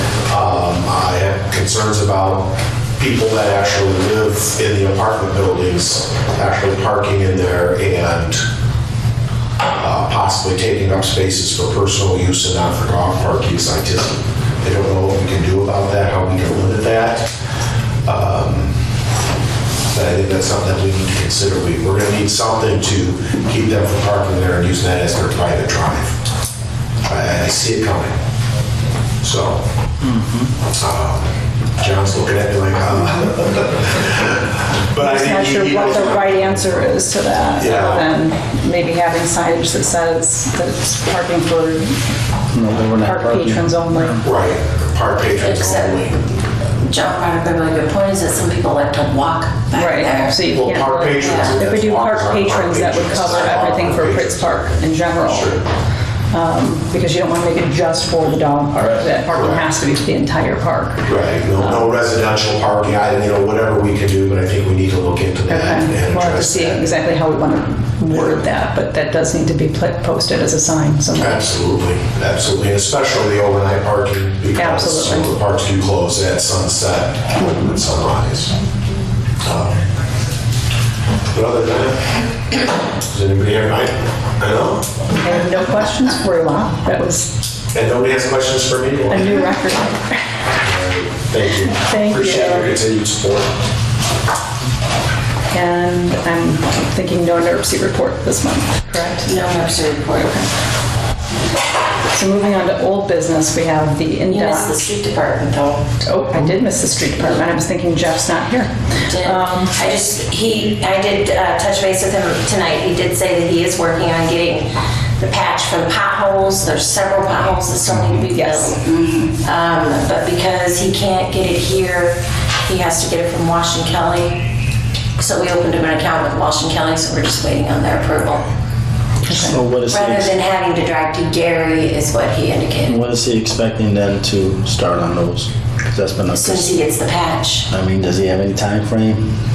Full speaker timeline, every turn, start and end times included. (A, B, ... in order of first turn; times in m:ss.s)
0:00.3-0:08.4 A
0:09.8-0:17.3 A
0:18.1-0:18.8 A
0:19.9-0:26.2 A
0:27.0-0:28.2 A
0:29.2-0:29.6 A
0:30.8-0:36.9 A
0:35.0-0:42.0 B
0:37.6-0:38.0 A
0:42.5-0:43.6 C
0:42.9-0:44.2 B
0:44.2-0:46.2 A
0:45.4-0:46.0 D
0:46.8-0:50.4 D
0:49.7-0:55.6 B
0:50.5-0:54.7 A
0:51.2-0:51.6 D
0:55.2-0:55.6 A
0:56.3-1:01.9 B
0:59.3-0:59.7 A
1:01.0-1:06.8 A
1:05.5-1:11.4 B
1:08.1-1:08.4 A
1:11.2-1:18.5 A
1:14.6-1:15.3 B
1:19.4-1:19.8 A
1:21.3-1:22.1 A
1:23.1-1:24.9 A
1:25.2-1:27.3 B
1:27.7-1:29.4 A
1:29.1-1:30.2 B
1:30.6-1:33.6 A
1:31.6-1:32.8 B
1:35.5-1:39.3 B
1:39.2-1:40.5 D
1:42.1-1:44.8 B
1:44.3-1:45.9 D
1:46.0-1:49.7 B
1:49.1-2:04.5 D
1:58.4-1:59.2 B
2:05.2-2:08.5 D
2:09.2-2:09.6 B
2:09.3-2:10.4 C
2:09.8-2:13.0 D
2:12.8-2:16.7 C
2:16.3-2:17.7 D
2:17.7-2:19.3 C